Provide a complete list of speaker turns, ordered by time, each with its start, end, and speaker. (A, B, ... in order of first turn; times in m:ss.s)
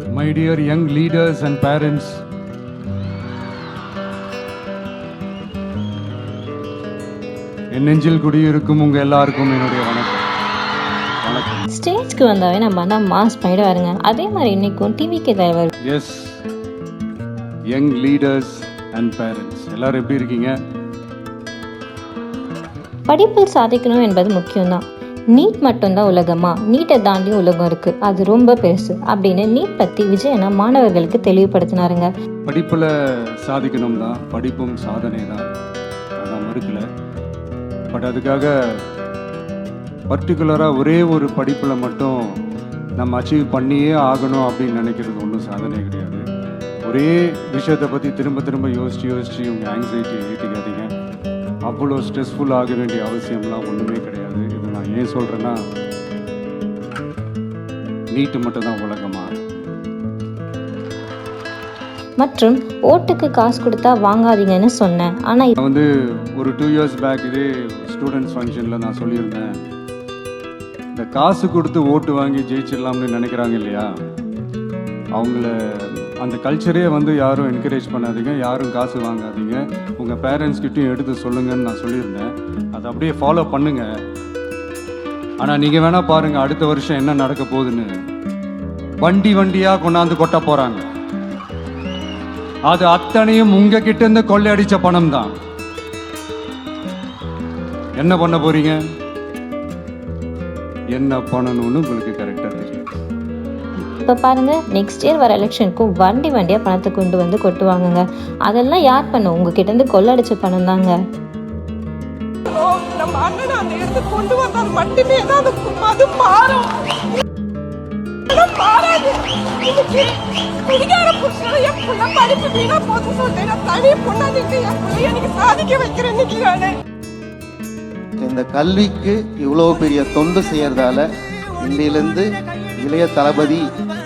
0:00.2-0:02.2 A
0:07.7-0:10.3 A
0:11.2-0:11.7 A
0:11.7-0:15.7 B
0:15.9-0:16.4 A
0:17.7-0:20.6 A
0:23.1-0:24.8 B
0:25.3-0:32.1 B
0:32.5-0:32.9 A
0:33.4-0:35.4 A
0:36.2-0:36.8 A
0:37.9-0:38.8 A
0:40.1-0:42.4 A
0:43.0-0:46.2 A
0:46.9-0:50.9 A
0:51.7-0:55.6 A
0:58.1-0:59.4 A
1:02.2-1:05.5 B
1:05.6-1:05.9 A
1:06.4-1:09.7 A
1:11.0-1:13.9 A
1:15.2-1:23.9 A
1:25.4-1:27.9 A
1:29.0-1:30.9 A
1:32.7-1:35.3 A
1:38.0-1:38.8 A
1:40.9-1:42.9 A
1:44.0-1:51.0 B
1:52.5-1:57.2 C
1:58.3-2:06.8 C
2:08.2-2:11.1 D
2:11.6-2:13.6 D